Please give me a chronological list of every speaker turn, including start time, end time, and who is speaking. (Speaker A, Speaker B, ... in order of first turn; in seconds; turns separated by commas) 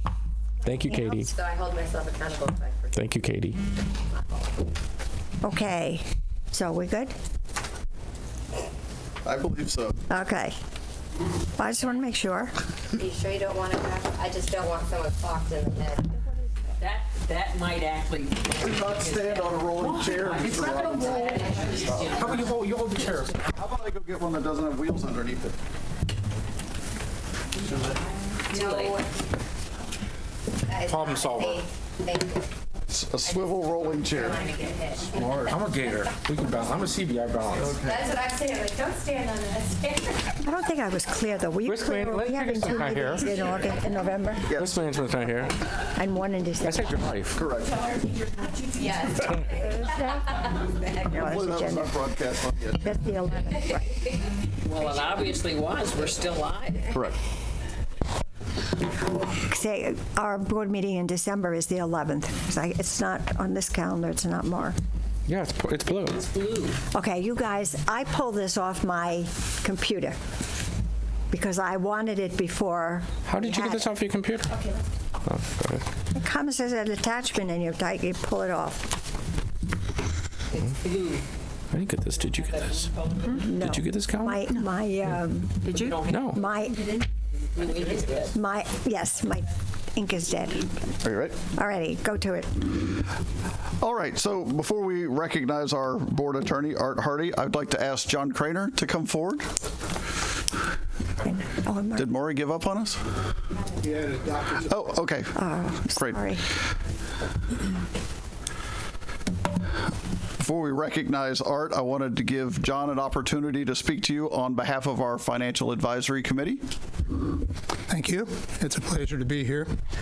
Speaker A: 0.7-1.3, Speaker B: 0.9-1.2, Speaker C: 1.2-3.0, Speaker A: 2.9-3.6, Speaker B: 5.4-7.2, Speaker D: 9.2-10.0, Speaker B: 10.1-10.6, Speaker B: 11.6-12.5, Speaker C: 12.9-16.1, Speaker E: 16.8-22.3, Speaker D: 18.6-22.3, Speaker A: 20.5-21.1, Speaker C: 21.4-21.8, Speaker A: 22.1-23.4, Speaker D: 23.4-25.6, Speaker C: 28.5-29.0, Speaker E: 28.6-28.9, Speaker C: 30.7-32.5, Speaker A: 30.9-31.6, Speaker D: 32.9-34.4, Speaker C: 33.3-35.5, Speaker D: 35.2-35.6, Speaker A: 35.2-37.8, Speaker D: 37.5-38.0, Speaker C: 37.8-40.3, Speaker B: 40.4-44.5, Speaker A: 41.7-43.3, Speaker A: 44.6-45.6, Speaker B: 46.0-46.9, Speaker A: 46.6-47.4, Speaker D: 47.3-47.8, Speaker C: 48.8-49.3, Speaker B: 49.5-50.5, Speaker B: 51.0-52.0, Speaker D: 51.1-52.9, Speaker B: 52.8-53.9, Speaker E: 54.7-56.9, Speaker D: 56.9-57.2, Speaker B: 59.5-64.8, Speaker A: 65.3-66.3, Speaker E: 66.2-66.7, Speaker B: 66.9-70.2, Speaker B: 71.3-73.9, Speaker A: 73.3-74.5, Speaker A: 75.2-75.8, Speaker B: 76.1-79.0, Speaker E: 80.8-81.2, Speaker A: 81.7-82.9, Speaker B: 83.3-87.0, Speaker A: 83.5-84.4, Speaker E: 85.9-86.2, Speaker A: 86.1-86.4, Speaker E: 87.5-88.3, Speaker B: 88.3-90.7, Speaker D: 91.0-91.4, Speaker B: 91.5-92.7, Speaker D: 93.8-99.5, Speaker B: 101.3-102.1, Speaker D: 102.0-103.0, Speaker F: 103.8-104.7, Speaker D: 104.7-105.4, Speaker B: 105.4-106.4, Speaker D: 105.9-106.3, Speaker D: 110.4-116.6, Speaker F: 117.9-119.7